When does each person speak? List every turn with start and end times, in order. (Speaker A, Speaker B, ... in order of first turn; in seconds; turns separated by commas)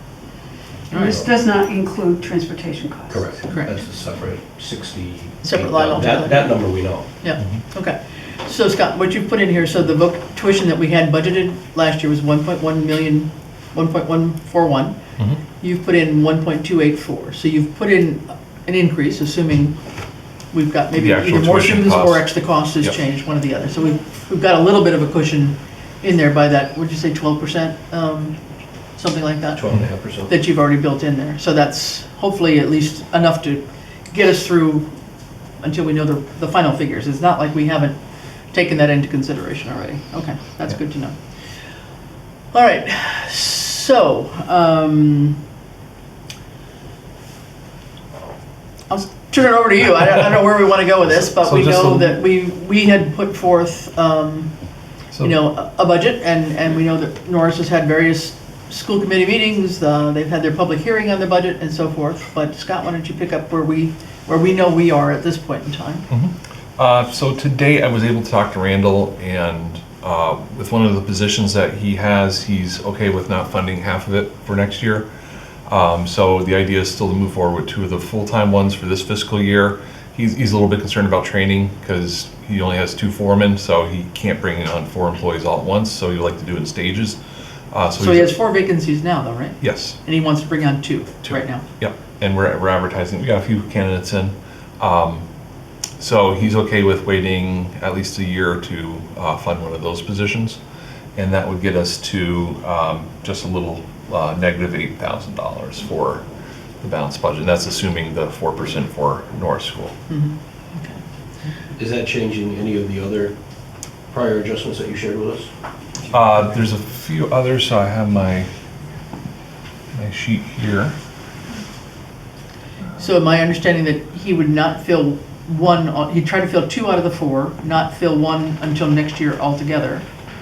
Speaker A: 0.9-1.2, Speaker B: 0.9-3.3, Speaker C: 0.9-1.3, Speaker C: 3.1-7.1, Speaker A: 5.4-14.9, Speaker A: 15.6-19.7, Speaker A: 20.5-28.4, Speaker D: 20.9-23.0, Speaker A: 28.9-29.6, Speaker C: 29.5-30.4, Speaker A: 30.2-34.9, Speaker A: 35.6-38.0, Speaker A: 38.5-41.1, Speaker A: 42.5-45.4, Speaker A: 48.9-54.5, Speaker D: 51.1-52.2, Speaker D: 55.1-55.4, Speaker A: 55.2-66.1, Speaker D: 66.1-75.1, Speaker D: 75.7-87.2, Speaker D: 87.7-88.4, Speaker A: 88.0-91.6, Speaker D: 89.6-90.0, Speaker D: 91.2-95.2, Speaker D: 96.0-100.6, Speaker D: 101.2-106.2, Speaker D: 106.8-109.9, Speaker A: 110.1-111.0, Speaker C: 111.8-113.3, Speaker C: 114.1-115.5, Speaker D: 116.1-118.5, Speaker D: 119.9-120.9, Speaker A: 123.0-130.0